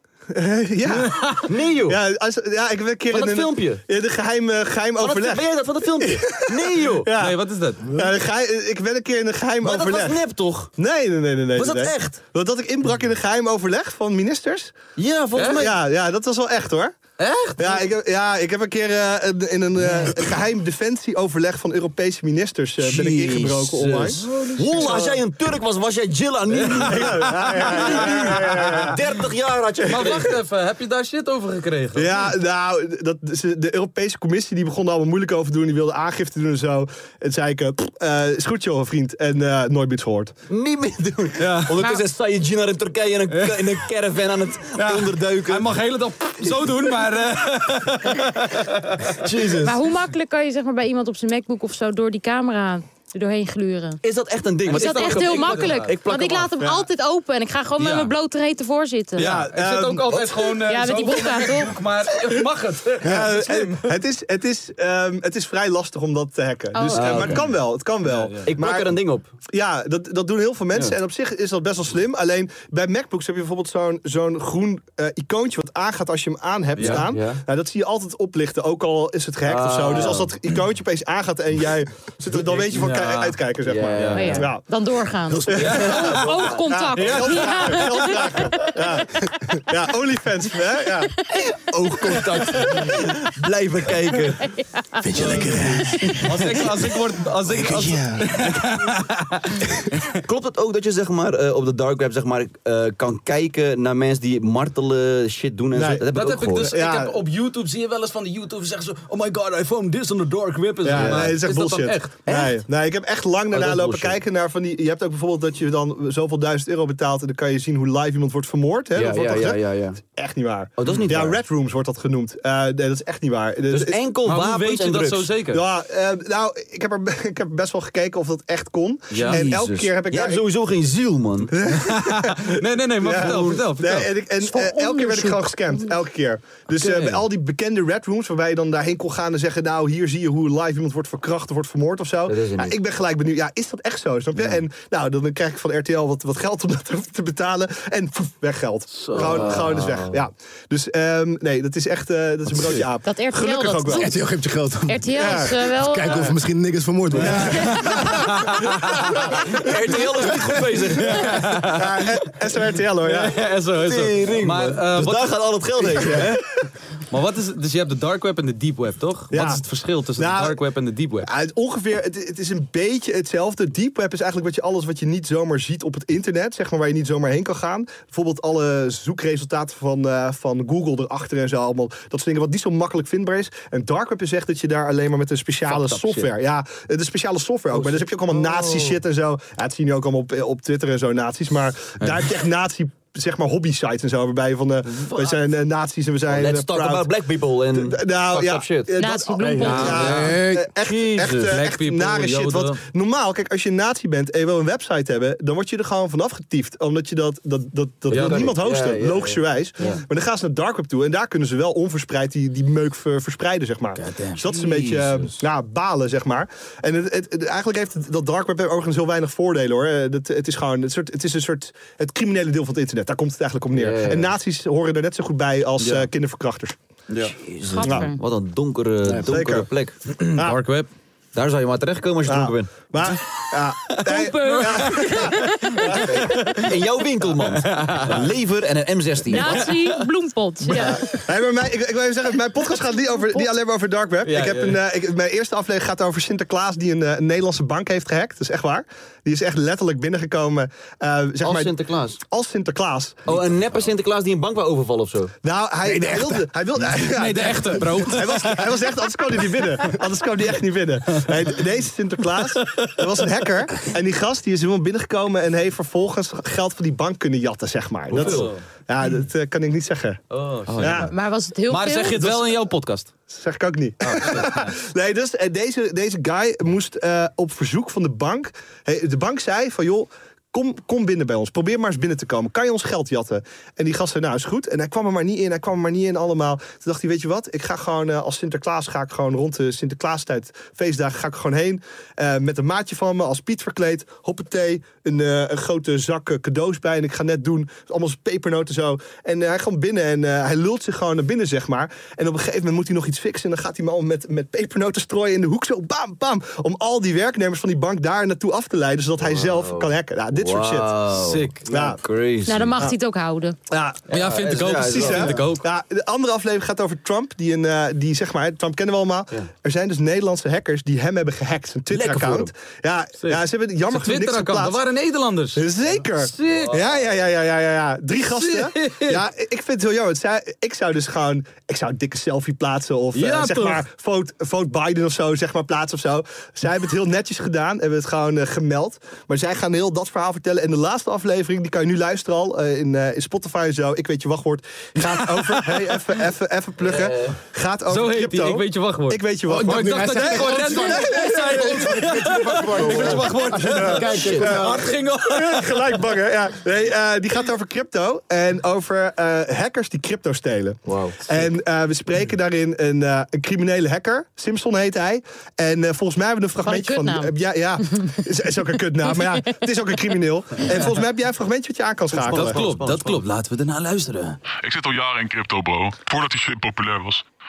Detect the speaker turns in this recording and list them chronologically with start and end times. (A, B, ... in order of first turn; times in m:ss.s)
0:00.3-0:10.2 A
0:01.0-0:01.5 B
0:01.4-0:02.0 C
0:03.1-0:03.8 C
0:05.0-0:07.1 C
0:07.2-0:07.8 B
0:09.6-0:10.7 C
0:10.8-0:14.8 A
0:11.6-0:12.2 C
0:15.0-0:15.8 C
0:15.4-0:15.6 B
0:15.6-0:17.0 A
0:17.2-0:17.8 B
0:17.6-0:25.2 A
0:22.8-0:30.4 C
0:24.2-0:25.2 B
0:26.5-0:28.4 B
0:26.9-0:29.0 A
0:29.9-0:32.3 B
0:32.0-0:40.3 A
0:40.5-0:45.7 C
0:41.4-0:41.8 B
0:43.3-0:43.8 B
0:44.8-0:49.2 B
0:49.1-0:49.8 C
0:49.6-0:54.0 D
0:54.0-0:56.5 C
0:54.7-0:55.9 B
0:54.7-0:59.3 D
0:56.6-0:56.9 A
0:57.8-0:58.1 B
0:59.2-1:03.9 B
0:59.2-1:00.5 A
1:00.7-1:01.7 D
1:03.1-1:09.0 A
1:06.7-1:07.3 D
1:06.9-1:07.6 C
1:08.0-1:08.5 B
1:08.4-1:09.3 C
1:09.5-1:24.6 A
1:16.8-1:17.0 B
1:16.8-1:17.4 C
1:19.4-1:20.3 C
1:22.3-1:23.4 B
1:23.6-1:24.5 C
1:23.9-1:24.4 B
1:24.1-1:28.6 D
1:25.5-1:31.2 A
1:25.5-1:26.6 C
1:25.6-1:26.4 B
1:27.0-1:27.8 B
1:31.3-1:34.5 C
1:34.5-1:35.0 D
1:35.0-1:36.4 E
1:35.2-1:36.6 C
1:35.2-1:40.2 B
1:37.5-1:38.3 E
1:40.2-1:46.8 C
1:45.7-1:46.1 A
1:46.1-1:52.2 B
1:46.6-1:47.2 A
1:50.8-2:04.0 A
1:50.9-1:51.4 C
1:52.3-1:52.6 C
1:53.5-1:54.2 C
1:59.0-2:00.0 C
2:00.8-2:01.4 C
2:03.7-2:05.3 C
2:04.3-2:05.6 B
2:05.5-2:10.4 A
2:09.1-2:09.4 B
2:09.2-2:11.5 C
2:11.5-2:34.1 A
2:11.8-2:14.1 B
2:13.0-2:13.6 C
2:14.4-2:15.9 D
2:16.7-2:17.2 B
2:22.3-2:22.8 C
2:28.9-2:29.7 B
2:29.2-2:30.2 C
2:33.0-2:34.1 D
2:33.9-2:38.9 E
2:34.9-2:36.3 D
2:35.2-2:35.6 A
2:37.2-2:38.0 A
2:37.9-2:39.0 B
2:39.3-2:41.4 C
2:41.0-2:42.1 B
2:41.7-2:43.4 A
2:43.1-2:45.4 B
2:43.8-2:46.4 C
2:45.9-2:46.4 A
2:46.0-2:46.4 B
2:47.1-2:51.3 B
2:49.3-2:49.6 A
2:50.2-2:50.6 A
2:51.2-3:17.1 A
3:05.8-3:06.1 C
3:07.7-3:08.9 C
3:15.1-3:15.4 C
3:16.3-3:18.9 C
3:17.7-3:46.8 A
3:19.0-3:20.0 D
3:19.4-3:20.7 E
3:19.6-3:20.4 B
3:20.8-3:21.6 C
3:21.4-3:22.8 B
3:28.1-3:30.0 C
3:28.1-3:28.4 B
3:43.7-3:44.4 C
3:47.1-3:50.2 C
3:47.7-3:48.2 D
3:49.1-3:49.3 E
3:49.3-3:49.7 A
3:50.4-3:50.9 B
3:51.3-3:52.7 C
3:52.2-3:55.5 A
3:54.0-3:56.6 D
3:55.9-3:59.7 C
3:57.4-3:58.2 B
3:59.3-4:01.1 D
3:59.3-3:59.9 B
4:00.8-4:11.8 A
4:03.2-4:03.5 D
4:04.3-4:04.7 B
4:11.4-4:12.2 C
4:12.3-4:13.3 A
4:13.3-4:15.4 C
4:15.4-4:30.2 A
4:15.8-4:18.1 E
4:17.0-4:18.7 B
4:28.1-4:28.5 C
4:28.1-4:28.6 B
4:30.3-4:31.1 B
4:30.7-4:31.1 C
4:30.8-4:31.1 A
4:31.1-4:32.2 D
4:31.7-4:33.1 B
4:33.3-5:11.0 A
4:34.0-4:34.7 B
5:09.2-5:12.8 C
5:11.1-5:11.6 B
5:11.7-5:12.0 A
5:12.5-5:13.6 D
5:13.7-5:14.1 A
5:14.1-5:15.5 C
5:14.1-5:15.6 B
5:14.7-5:24.8 A
5:21.9-5:22.5 C
5:23.2-5:25.6 B
5:25.6-5:51.8 A
5:26.2-5:26.8 B
5:26.5-5:27.2 C
5:28.2-5:29.3 B
5:33.1-5:33.8 B
5:45.0-5:45.8 B
5:46.8-5:47.4 C
5:47.9-5:55.9 B
5:49.5-5:54.9 E
5:52.8-5:54.6 C
5:53.8-5:54.6 A
5:55.3-6:12.7 A
6:00.9-6:01.4 C
6:06.6-6:07.3 D
6:09.0-6:09.4 D
6:12.1-6:13.2 C
6:12.3-6:14.4 B
6:14.6-6:17.2 F